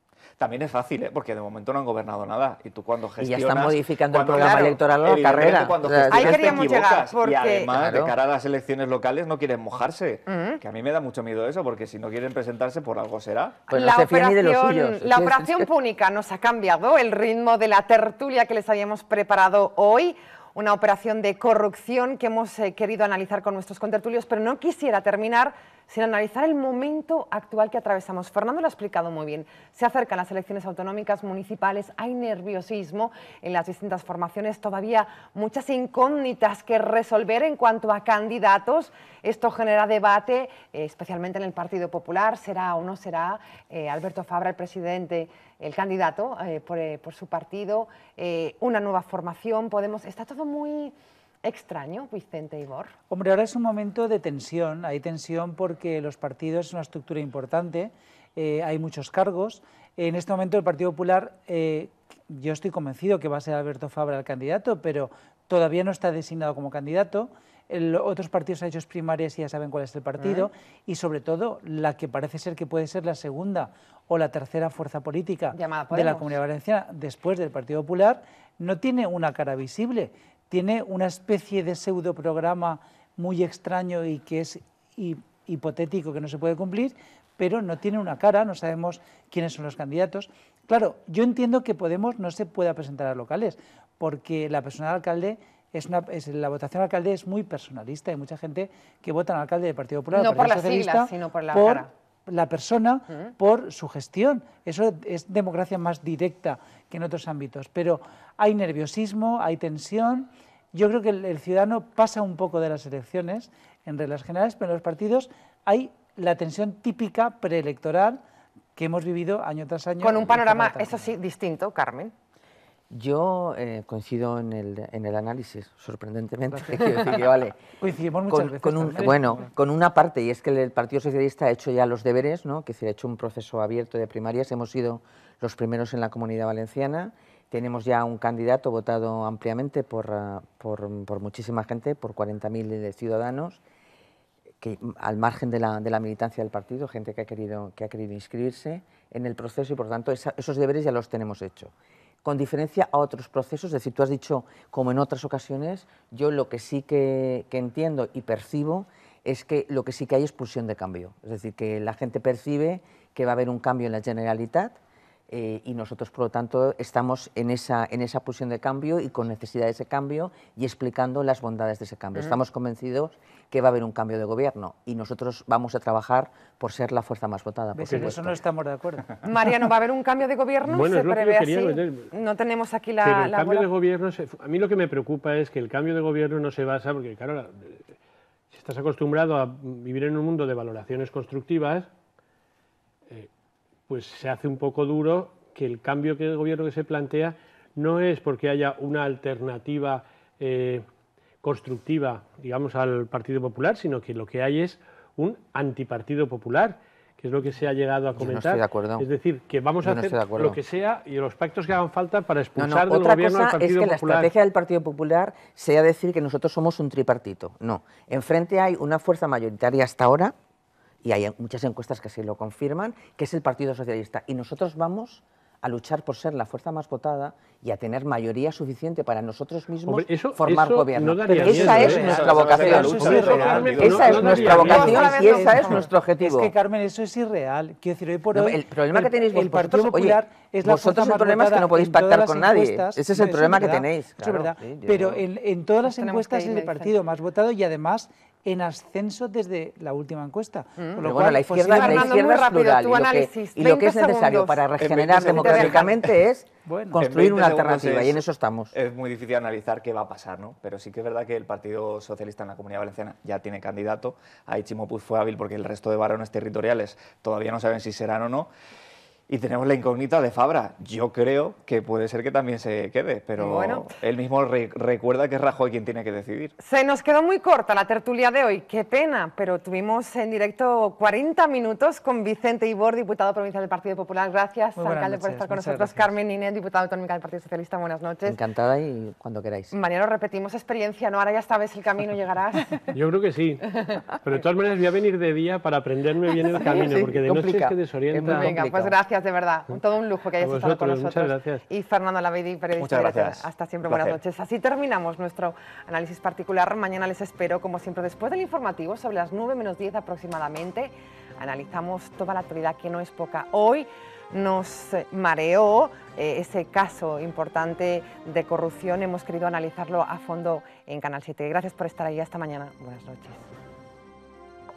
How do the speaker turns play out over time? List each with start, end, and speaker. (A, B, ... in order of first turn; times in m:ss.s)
0:00.4-0:13.7 A
0:03.2-0:06.7 B
0:04.3-0:04.8 C
0:06.1-0:07.7 C
0:07.7-0:08.1 B
0:10.3-0:10.6 C
0:13.7-0:15.7 B
0:13.7-0:52.9 C
0:53.1-1:58.2 D
1:10.2-1:10.5 C
1:15.5-1:16.4 C
1:40.1-1:41.9 C
1:58.8-2:01.1 D
2:00.0-2:02.1 C
2:02.9-2:07.6 B
2:06.6-2:06.9 D
2:07.8-2:09.5 D
2:08.3-2:23.6 B
2:24.6-2:31.7 B
2:32.2-2:44.8 B
2:45.3-2:58.4 B
2:57.7-2:59.3 D
2:59.2-3:03.7 C
3:00.6-3:02.1 E
3:03.0-3:07.8 E
3:08.5-3:11.9 E
3:13.9-3:20.8 E
3:21.4-3:34.3 E
3:28.2-3:29.1 B
3:29.8-3:30.6 B
3:32.6-3:40.4 B
3:41.0-3:56.5 B
3:49.9-3:55.1 E
3:51.4-3:55.0 A
3:51.8-4:12.2 D
3:54.5-3:55.9 C
3:58.3-4:05.2 B
4:05.8-4:06.9 C
4:10.8-4:11.1 C
4:11.0-4:18.7 B
4:11.7-4:16.0 C
4:14.8-4:16.0 A
4:16.7-4:17.0 D
4:17.0-4:18.2 A
4:18.7-4:28.5 A
4:29.3-4:36.5 A
4:33.4-4:33.9 C
4:36.6-4:48.4 C
4:44.8-4:46.1 D
4:48.2-4:49.7 B
4:49.7-4:52.9 C
4:52.9-4:58.6 E
4:53.7-4:54.1 C
4:56.4-4:57.0 C
4:56.6-4:59.0 B
4:58.3-5:23.4 C
5:00.4-5:01.6 E
5:02.8-5:04.2 A